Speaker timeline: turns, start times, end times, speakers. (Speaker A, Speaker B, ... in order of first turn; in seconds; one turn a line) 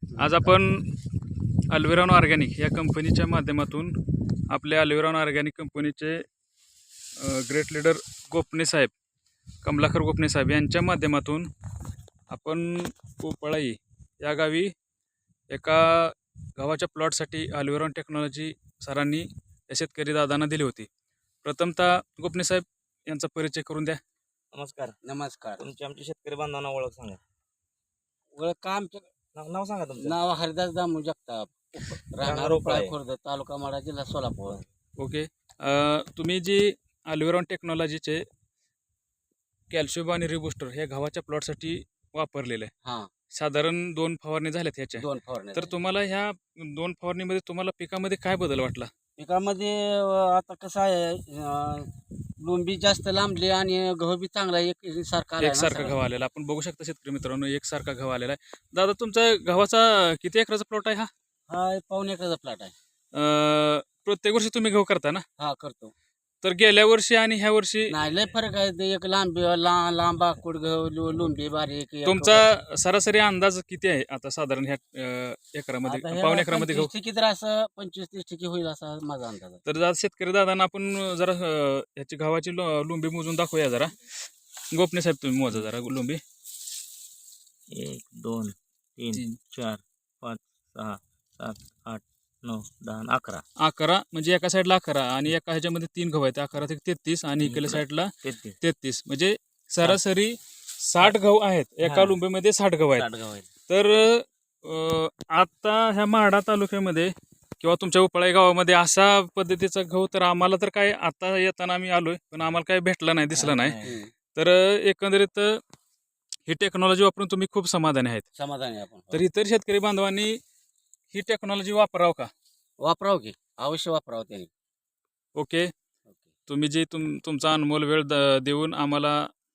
Speaker A: 0.1-0.9
Speaker A: 1.7-4.0
Speaker A: 4.5-6.2
Speaker A: 7.2-8.9
Speaker A: 9.6-11.5
Speaker A: 12.3-14.7
Speaker A: 15.5-20.9
Speaker A: 21.4-24.0
Speaker B: 24.5-24.9
Speaker C: 25.0-25.6
Speaker B: 25.6-27.2
Speaker C: 28.3-29.1
Speaker B: 29.3-30.1
Speaker C: 30.0-34.6
Speaker B: 32.2-32.9
Speaker A: 35.0-38.2
Speaker A: 39.7-42.7
Speaker C: 42.8-43.1
Speaker A: 43.3-48.9
Speaker C: 45.0-45.7
Speaker C: 49.2-56.0
Speaker A: 55.4-61.1
Speaker C: 61.5-62.7
Speaker A: 63.1-65.2
Speaker C: 65.4-65.9
Speaker A: 66.4-67.9
Speaker C: 67.9-72.5
Speaker A: 72.0-76.9
Speaker C: 75.8-79.6
Speaker A: 79.7-83.9
Speaker A: 84.7-86.2
Speaker B: 87.7-93.4
Speaker A: 89.1-89.4
Speaker A: 93.6-103.1
Speaker B: 97.4-98.6
Speaker B: 101.8-102.2
Speaker B: 103.0-103.5
Speaker A: 103.7-115.6
Speaker C: 113.4-114.1
Speaker B: 113.4-113.9
Speaker A: 116.5-118.2
Speaker C: 118.3-119.2
Speaker A: 119.1-120.4
Speaker A: 121.1-122.3
Speaker C: 122.8-124.5
Speaker A: 125.3-125.7
Speaker A: 126.5-129.3